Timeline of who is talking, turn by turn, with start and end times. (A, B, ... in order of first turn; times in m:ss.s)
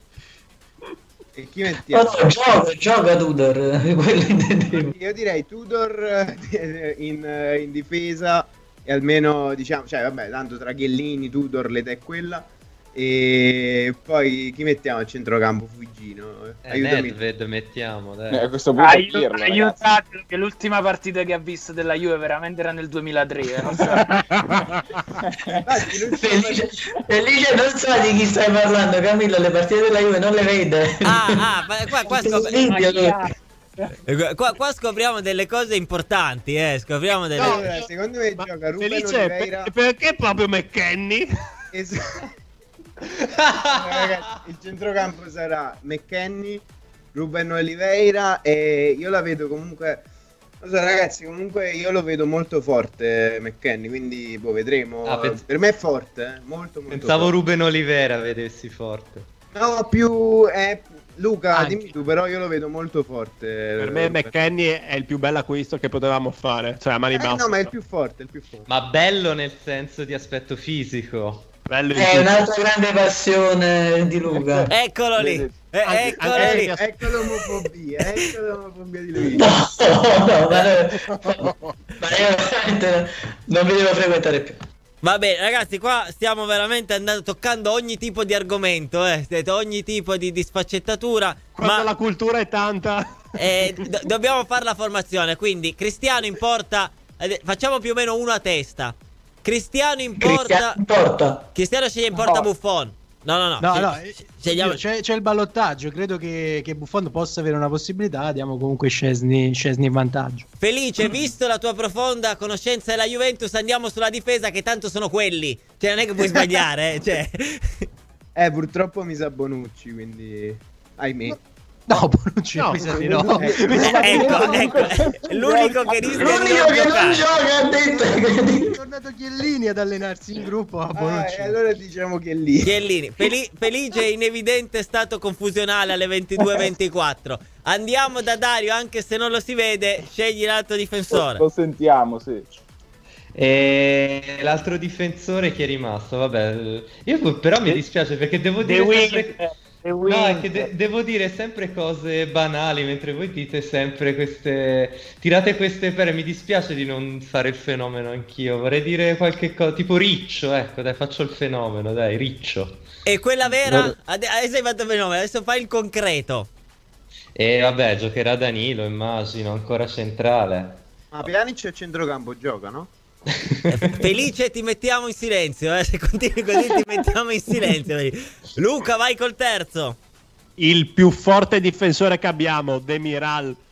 0:01.4-0:02.3 A
0:01.9-0:04.9 B
0:04.7-0:17.2 A
0:16.6-0:18.4 C
0:18.3-0:19.8 D
0:18.8-0:24.1 E
0:24.1-0:24.8 F
0:25.3-0:25.6 D
0:25.6-0:26.7 A
0:26.1-0:31.5 B
0:31.0-0:32.6 G
0:32.0-0:33.2 B
0:32.1-0:34.0 E
0:34.1-0:37.7 G
0:37.4-0:37.9 F
0:37.4-0:39.7 A
0:38.4-0:41.3 F
0:41.7-0:42.2 A
0:43.6-0:50.0 A
0:43.8-0:44.2 C
0:50.6-0:57.4 A
0:55.0-0:55.4 C
0:56.9-0:59.3 C
0:59.5-1:04.3 A
1:01.5-1:02.0 H
1:03.8-1:07.7 F
1:07.1-1:08.7 A
1:08.6-1:11.5 C
1:11.7-1:12.4 F
1:11.9-1:14.7 B
1:14.7-1:16.7 G
1:15.2-1:15.6 D
1:15.8-1:16.9 F
1:16.2-1:19.5 A
1:19.4-1:21.4 B
1:21.3-1:21.6 F
1:22.0-1:24.6 B
1:25.0-1:31.9 G
1:31.6-1:33.0 F
1:33.4-1:40.8 G
1:40.2-1:41.4 B
1:41.6-1:44.8 G
1:42.1-1:42.5 H
1:43.6-1:50.4 H
1:50.6-1:57.9 G
1:58.4-2:01.4 A
2:01.9-2:04.7 H
2:02.6-2:02.9 F
2:02.9-2:06.6 D
2:03.4-2:04.7 A
2:03.8-2:07.3 G
2:06.2-2:08.7 B
2:07.7-2:11.6 H
2:11.0-2:12.8 A
2:12.6-2:21.4 G
2:21.1-2:22.5 D
2:23.3-2:29.4 C
2:28.6-2:29.3 F
2:29.3-2:29.6 E
2:29.8-2:30.5 F
2:30.0-2:42.8 C
2:43.0-2:46.5 G
2:43.4-2:44.0 C
2:47.4-2:50.8 C
2:51.1-2:52.9 A
2:53.7-3:00.0 G
3:00.6-3:03.6 F